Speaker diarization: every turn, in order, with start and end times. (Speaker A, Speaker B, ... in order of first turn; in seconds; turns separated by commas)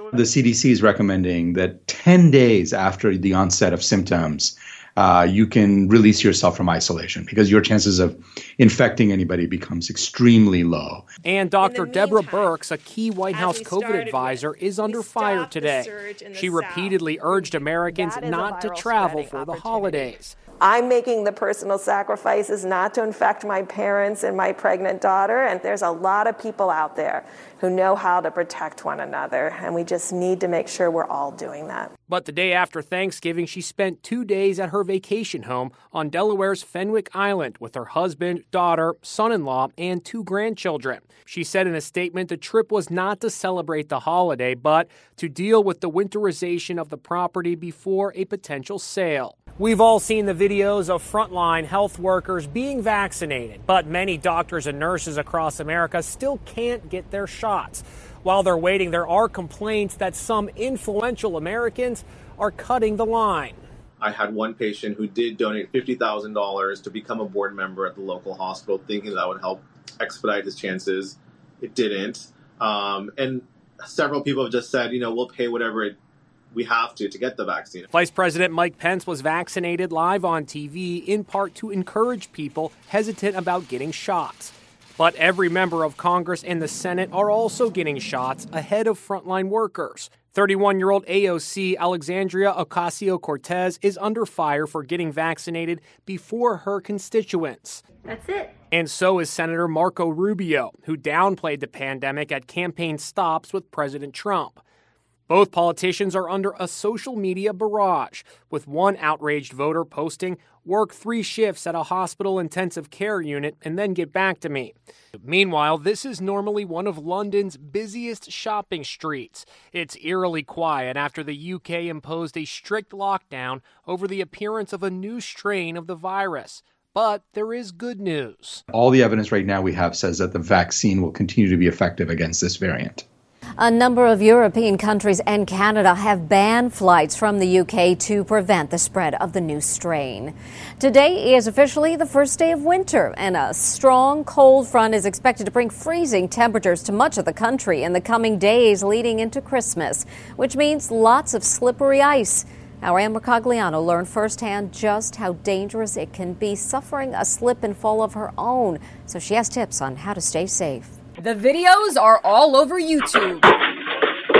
Speaker A: 0.1-11.0, Speaker B: 11.2-20.4, Speaker C: 11.7-12.2, Speaker C: 14.9-31.9, Speaker B: 32.1-63.6, Speaker D: 64.0-75.9, Speaker D: 76.5-77.9, Speaker B: 77.9-97.8, Speaker B: 98.7-104.6, Speaker B: 105.3-128.6, Speaker A: 128.7-133.0, Speaker E: 133.6-160.9, Speaker F: 161.2-163.5